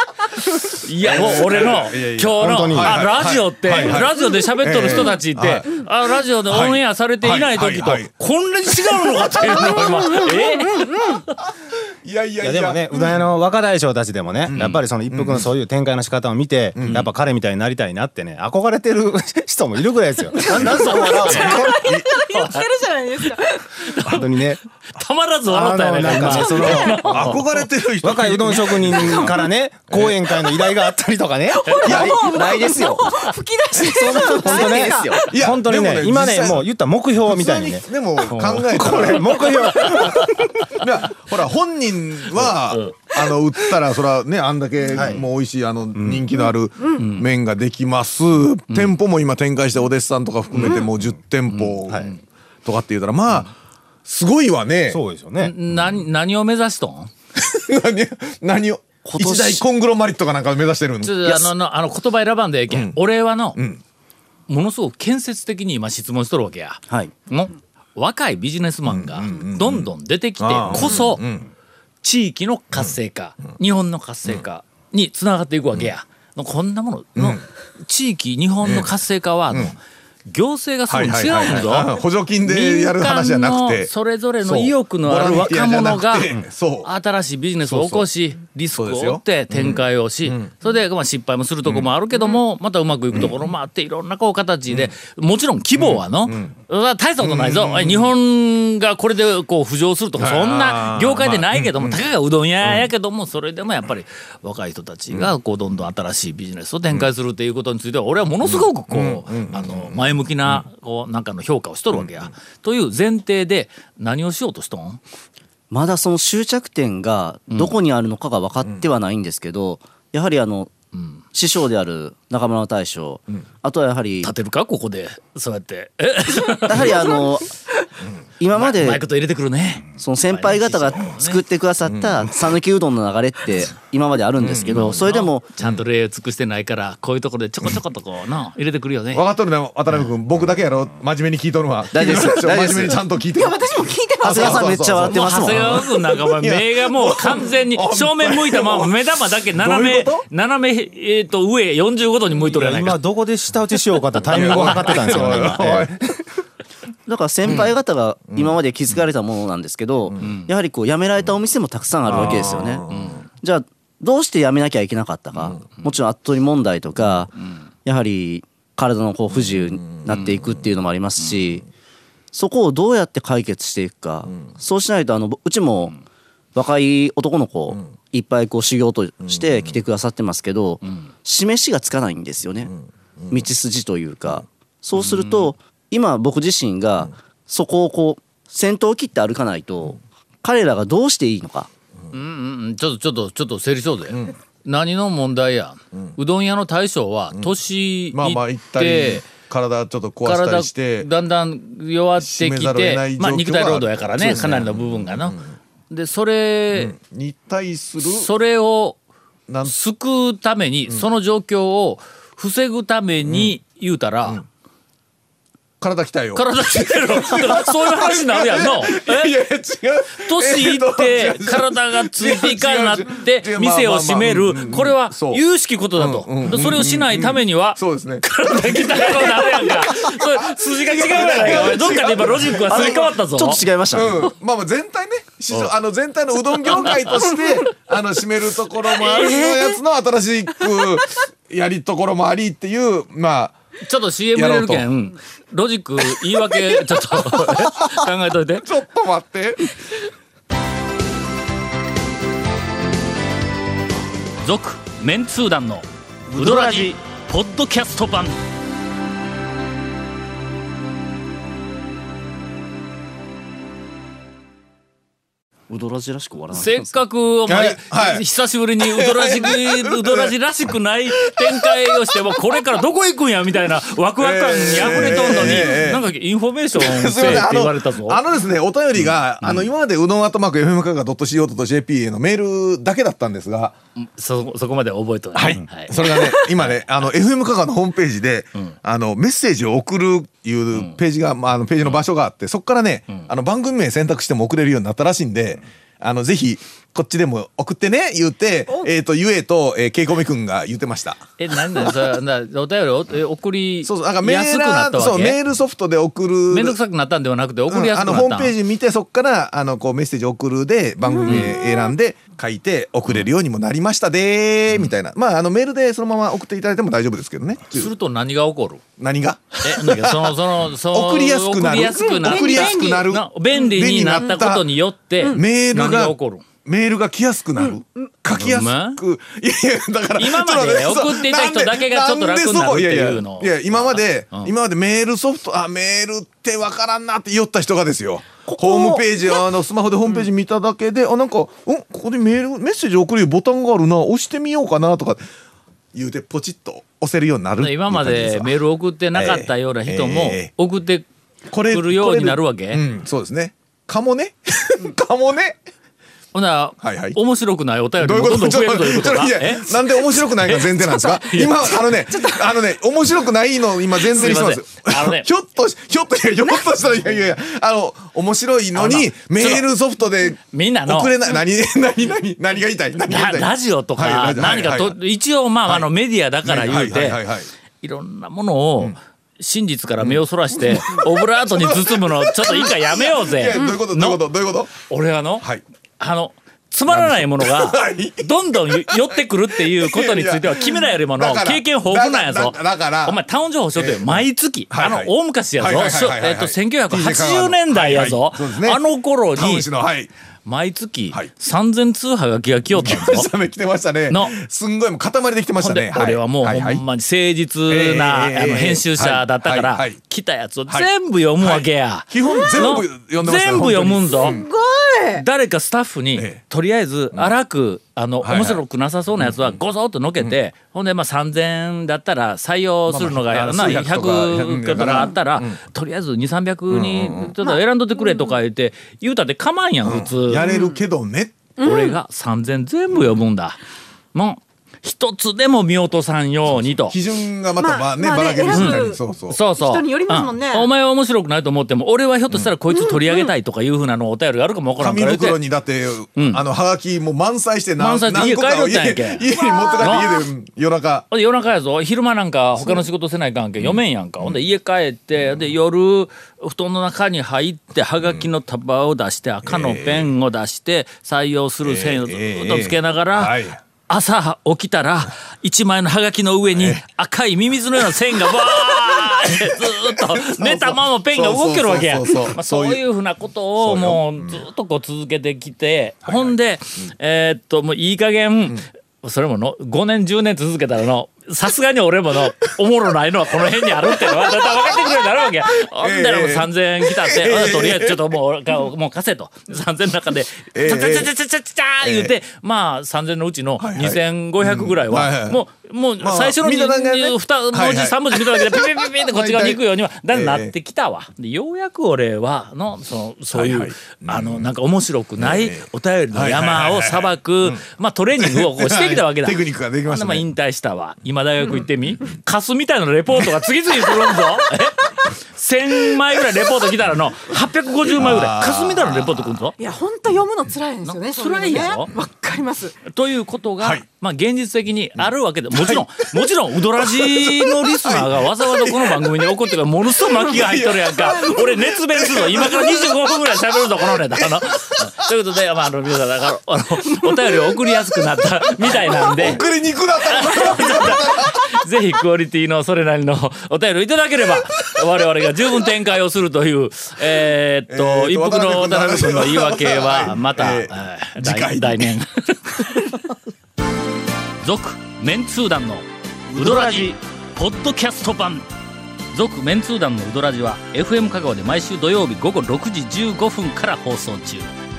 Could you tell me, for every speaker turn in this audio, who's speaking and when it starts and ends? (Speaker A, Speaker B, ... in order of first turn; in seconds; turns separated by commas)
Speaker A: 0.8-11.2, Speaker B: 1.0-5.8, Speaker C: 2.4-3.0, Speaker B: 6.5-8.1, Speaker B: 8.7-9.8, Speaker D: 9.7-11.2, Speaker B: 12.0-13.2, Speaker C: 12.4-21.9, Speaker B: 14.4-15.5, Speaker B: 16.7-17.1, Speaker D: 20.5-23.6, Speaker B: 20.8-22.2, Speaker A: 21.3-21.6, Speaker A: 22.3-22.7, Speaker A: 23.2-24.2, Speaker C: 24.0-24.6, Speaker A: 24.9-27.6, Speaker C: 25.5-27.5, Speaker B: 26.2-30.2, Speaker C: 28.0-32.2, Speaker D: 31.6-35.2, Speaker B: 31.8-32.5, Speaker E: 32.1-33.1, Speaker B: 33.7-34.0, Speaker E: 33.8-35.2, Speaker C: 34.3-40.5, Speaker B: 35.3-40.0, Speaker B: 40.7-53.5, Speaker C: 44.9-45.2, Speaker C: 45.9-46.2, Speaker A: 46.9-47.2, Speaker A: 51.5-52.2, Speaker B: 54.0-55.0, Speaker C: 54.9-55.5, Speaker A: 55.4-57.1, Speaker B: 57.4-61.5, Speaker E: 59.0-59.6, Speaker A: 61.0-63.6, Speaker B: 62.7-63.0, Speaker B: 63.5-63.8, Speaker A: 64.5-71.2, Speaker B: 68.8-71.5, Speaker A: 72.0-115.0, Speaker B: 77.2-77.4, Speaker B: 78.6-78.9, Speaker B: 79.5-79.7, Speaker B: 80.9-83.9, Speaker B: 84.4-86.9, Speaker B: 87.6-88.1, Speaker B: 88.7-90.6, Speaker B: 91.6-92.4, Speaker B: 93.1-93.5, Speaker B: 95.7-96.5, Speaker B: 97.2-98.1, Speaker B: 100.2-102.0, Speaker B: 102.6-102.9, Speaker B: 108.4-110.7, Speaker B: 111.9-112.3, Speaker E: 115.7-120.7, Speaker A: 120.9-121.2, Speaker E: 121.3-124.3, Speaker A: 124.2-127.2, Speaker E: 126.7-127.5, Speaker E: 128.4-129.0, Speaker A: 128.5-131.4, Speaker E: 130.0-135.5, Speaker B: 131.8-132.4, Speaker B: 134.4-135.8, Speaker A: 134.6-139.2, Speaker B: 139.1-148.9, Speaker E: 141.9-143.0, Speaker D: 143.3-144.7, Speaker E: 144.2-145.9, Speaker A: 145.1-153.0, Speaker B: 149.6-150.2, Speaker C: 152.5-156.2, Speaker A: 154.1-155.6, Speaker B: 154.3-155.9, Speaker E: 157.1-162.8, Speaker B: 157.4-157.7, Speaker B: 158.3-158.5, Speaker A: 160.2-160.5, Speaker B: 162.1-163.2, Speaker A: 162.9-163.2, Speaker E: 163.4-171.6, Speaker B: 165.4-165.8, Speaker B: 169.3-170.7, Speaker E: 172.3-176.0, Speaker B: 174.2-174.5, Speaker E: 176.5-182.7, Speaker B: 179.2-179.8, Speaker B: 182.7-183.4, Speaker E: 183.3-191.7, Speaker A: 184.9-185.5, Speaker A: 192.1-199.2, Speaker B: 194.1-194.4, Speaker B: 195.9-196.2, Speaker B: 198.1-201.1, Speaker A: 200.2-205.4, Speaker B: 202.2-205.5, Speaker A: 205.9-206.9, Speaker B: 206.7-208.3, Speaker A: 208.0-209.0, Speaker B: 209.5-209.7, Speaker A: 209.6-214.4, Speaker B: 213.2-213.5, Speaker B: 215.8-225.4, Speaker A: 216.3-219.3, Speaker A: 220.2-233.6, Speaker B: 225.9-233.1, Speaker E: 231.4-231.7, Speaker E: 232.4-234.2, Speaker B: 233.9-243.6, Speaker A: 243.8-248.6, Speaker B: 244.3-244.9, Speaker B: 248.6-249.7, Speaker A: 254.4-258.4, Speaker E: 256.3-256.9, Speaker E: 265.7-267.0, Speaker A: 266.5-278.2, Speaker B: 267.4-268.2, Speaker B: 268.8-270.3, Speaker B: 271.2-271.7, Speaker B: 274.2-276.1, Speaker E: 275.0-275.7, Speaker B: 276.7-283.7, Speaker A: 278.9-279.7, Speaker A: 284.0-286.8, Speaker B: 285.3-301.2, Speaker A: 301.4-305.4, Speaker B: 303.8-306.8, Speaker A: 306.5-308.5, Speaker B: 307.7-317.9, Speaker A: 311.2-311.5, Speaker A: 314.7-314.9, Speaker A: 317.7-318.8, Speaker B: 319.0-324.7, Speaker A: 319.6-326.4, Speaker D: 322.0-323.0, Speaker D: 324.1-324.5, Speaker B: 325.2-345.2, Speaker A: 328.3-329.0, Speaker A: 330.1-334.5, Speaker D: 338.5-339.0, Speaker B: 345.9-348.6, Speaker A: 347.6-351.1, Speaker B: 349.1-350.5, Speaker B: 351.5-355.6, Speaker A: 351.7-352.8, Speaker A: 356.3-361.7, Speaker B: 356.8-357.2, Speaker B: 358.0-375.0, Speaker A: 364.1-365.3, Speaker A: 368.7-369.7, Speaker A: 370.4-371.1, Speaker A: 373.1-377.2, Speaker B: 375.6-375.9, Speaker B: 376.4-377.5, Speaker A: 377.8-384.2, Speaker B: 380.0-384.8, Speaker A: 384.9-385.5, Speaker A: 386.0-399.7, Speaker B: 386.9-393.2, Speaker B: 393.7-400.1, Speaker A: 400.4-403.3, Speaker B: 402.7-406.8, Speaker A: 404.1-404.4, Speaker A: 405.6-414.4, Speaker B: 407.7-410.0, Speaker B: 410.7-414.5, Speaker D: 414.3-415.2, Speaker A: 415.1-430.4, Speaker B: 416.1-416.4, Speaker B: 418.2-418.6, Speaker B: 419.2-419.6, Speaker B: 422.9-425.6, Speaker B: 426.7-427.3, Speaker D: 427.5-428.2, Speaker B: 429.8-431.6, Speaker D: 430.4-430.8, Speaker D: 431.6-431.9, Speaker A: 431.6-433.6, Speaker A: 434.1-437.0, Speaker B: 436.8-439.4, Speaker D: 437.6-439.0, Speaker A: 438.5-445.4, Speaker D: 439.5-440.7, Speaker D: 442.7-443.3, Speaker B: 444.8-451.1, Speaker A: 446.2-446.4, Speaker A: 447.8-449.2, Speaker D: 449.3-450.1, Speaker A: 449.8-450.1, Speaker A: 451.1-463.4, Speaker B: 453.6-454.4, Speaker B: 459.4-460.1, Speaker B: 461.6-463.6, Speaker A: 463.9-519.5, Speaker B: 466.5-466.8, Speaker B: 469.6-472.8, Speaker B: 473.6-474.4, Speaker B: 476.0-476.3, Speaker B: 485.8-488.0, Speaker B: 490.5-491.1, Speaker B: 491.8-492.1, Speaker B: 493.6-495.4, Speaker B: 496.0-500.5, Speaker B: 503.3-504.5, Speaker B: 505.2-507.6, Speaker B: 508.2-510.3, Speaker B: 517.9-519.5, Speaker D: 519.6-522.7, Speaker A: 520.8-521.9, Speaker A: 522.9-539.4, Speaker B: 525.5-526.1, Speaker B: 526.8-529.2, Speaker B: 530.0-532.9, Speaker B: 538.7-541.5, Speaker A: 540.0-553.1, Speaker B: 547.7-551.9, Speaker A: 554.4-558.5, Speaker E: 556.4-556.9, Speaker A: 559.1-564.5